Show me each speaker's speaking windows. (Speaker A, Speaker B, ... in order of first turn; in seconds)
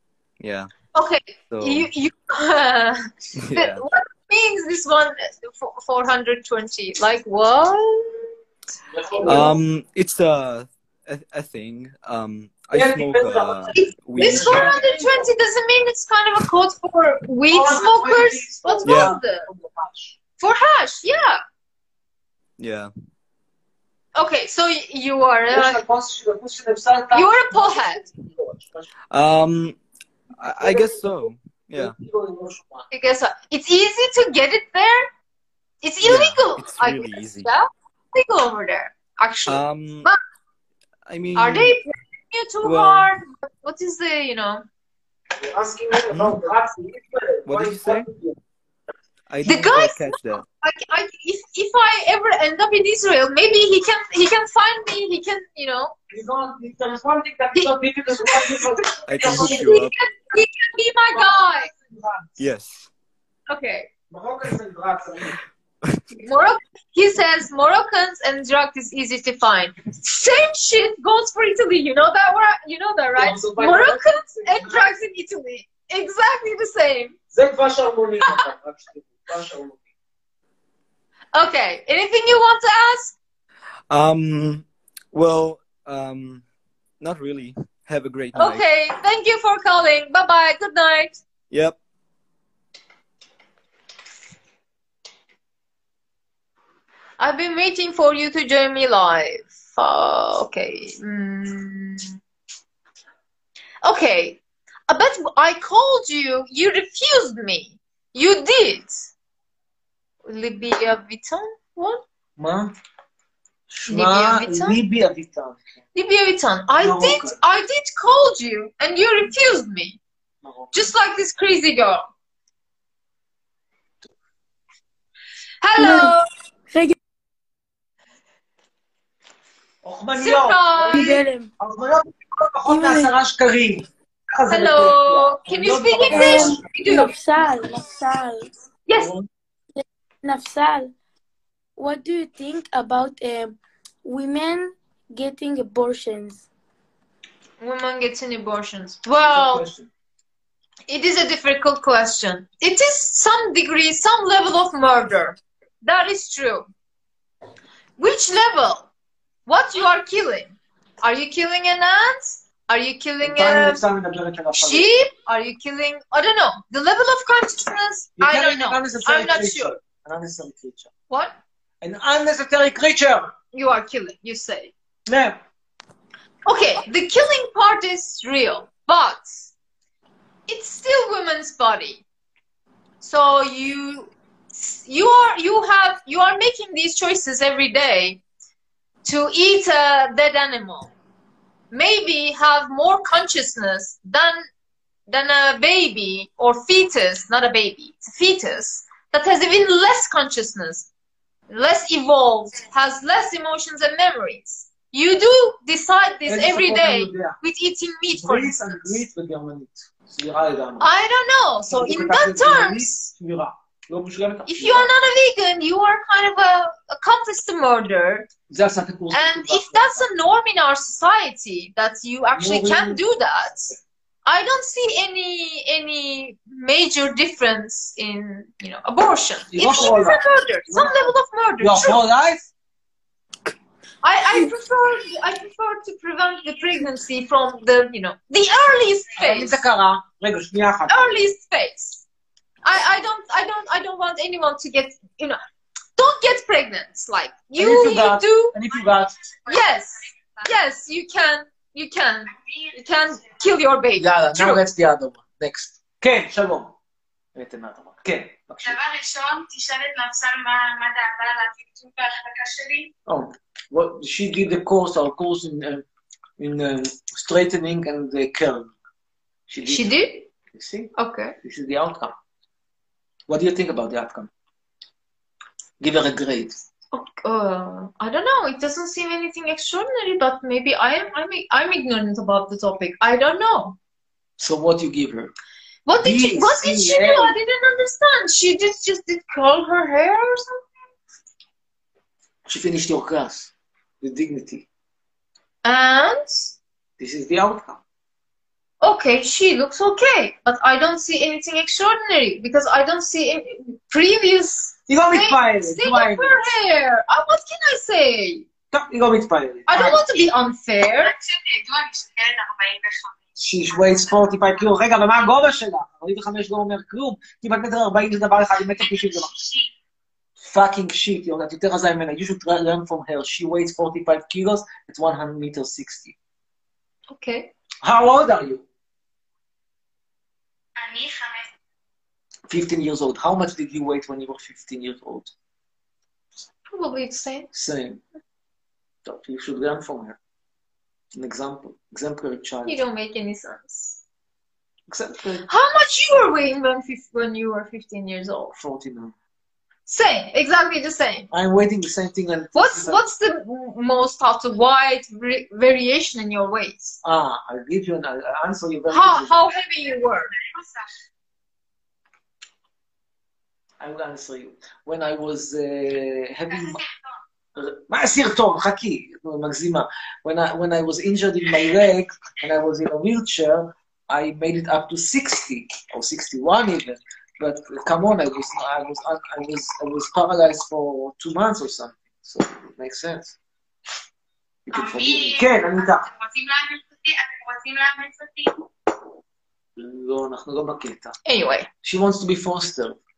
Speaker A: 0.4-0.7, 1.5-1.9, 3.4-3.8, 9.2-14.8, 18.9-19.2, 22.6-22.9, 29.1-29.8, 30.4-31.9, 36.0-37.5, 39.5-40.1, 41.1-41.8, 42.6-43.1, 46.1-46.4, 47.5-48.1, 49.3-50.5, 59.1-60.0, 62.4-62.9, 83.9-86.4, 87.0-88.7, 91.5-91.8
Speaker B: 0.9-8.3, 13.7-19.5, 20.4-21.4, 24.1-25.8, 27.1-28.1, 32.9-35.1, 35.8-40.2, 41.4-44.7, 49.4-55.9, 57.6-58.7, 59.2-61.7, 63.5-63.9, 66.2-77.2, 81.3-83.2, 88.4-91.2, 97.2-102.2, 103.8-109.0, 110.2-112.0, 113.9-114.8, 116.0-120.0, 120.7-122.0, 125.6-126.3, 130.2-131.2, 134.5-137.1, 147.6-149.7, 150.9-156.7, 158.0-158.9, 159.5-163.8, 164.6-169.8, 171.1-171.3, 173.5-174.7, 176.5-179.5, 180.5-182.0, 183.0-188.2, 189.0-190.9, 191.7-194.4, 195.1-200.9, 201.5-209.0, 210.8-213.1, 214.5-218.3, 219.1-232.0, 234.0-239.6, 240.9-242.0, 242.6-245.4, 246.0-248.6, 249.5-254.6, 269.7-270.3, 271.0-271.4, 276.9-283.8, 285.9-290.6, 295.6-296.5, 298.8-308.5, 309.7-311.1, 327.1-327.5, 336.7-337.5, 342.6-344.0, 345.5-348.6, 349.9-351.3, 352.6-357.0, 358.9-360.3, 391.3-391.7
Speaker C: 8.9-9.6, 12.7-15.3, 17.5-20.2, 25.5-28.9, 30.6-32.9, 45.4-48.4, 56.1-59.6, 61.1-62.4, 64.1-65.4, 73.2-74.9, 77.3-79.8, 112.4-112.7, 113.7-115.6, 116.8-117.4, 120.4-120.9, 129.8-136.7, 139.0-139.3, 149.2-149.9, 163.2-164.9, 168.2-170.9, 171.8-173.3, 175.1-175.4, 206.3-207.4, 208.1-210.9, 211.7-214.9, 218.5-220.1, 222.3-223.0, 229.5-232.5, 239.2-241.2, 247.6-249.2, 254.0-256.7, 257.4-258.8, 263.1-265.9, 266.4-268.7, 269.5-269.9, 270.5-272.2, 273.3-274.3, 275.8-276.6, 284.4-285.3, 286.0-287.3, 292.5-294.7, 297.0-297.8, 304.9-306.5, 308.7-310.0, 313.4-319.3, 320.5-326.2, 327.8-328.6, 332.5-335.3, 337.5-338.0, 339.1-340.2, 341.1-342.8, 344.9-345.5, 348.6-349.1, 351.3-353.0, 357.0-359.4, 363.8-366.8, 367.6-383.4, 384.7-386.1, 389.8-391.1, 391.8-393.0
Speaker D: 125.8-126.2, 126.7-127.0, 130.9-131.5, 132.7-133.1, 136.1-138.5, 139.8-140.9, 141.8-146.4
Speaker E: 249.4-250.5, 252.3-253.4, 258.6-262.9, 311.0-314.6, 318.8-319.7, 330.8-331.5, 360.5-360.9, 384.7-388.6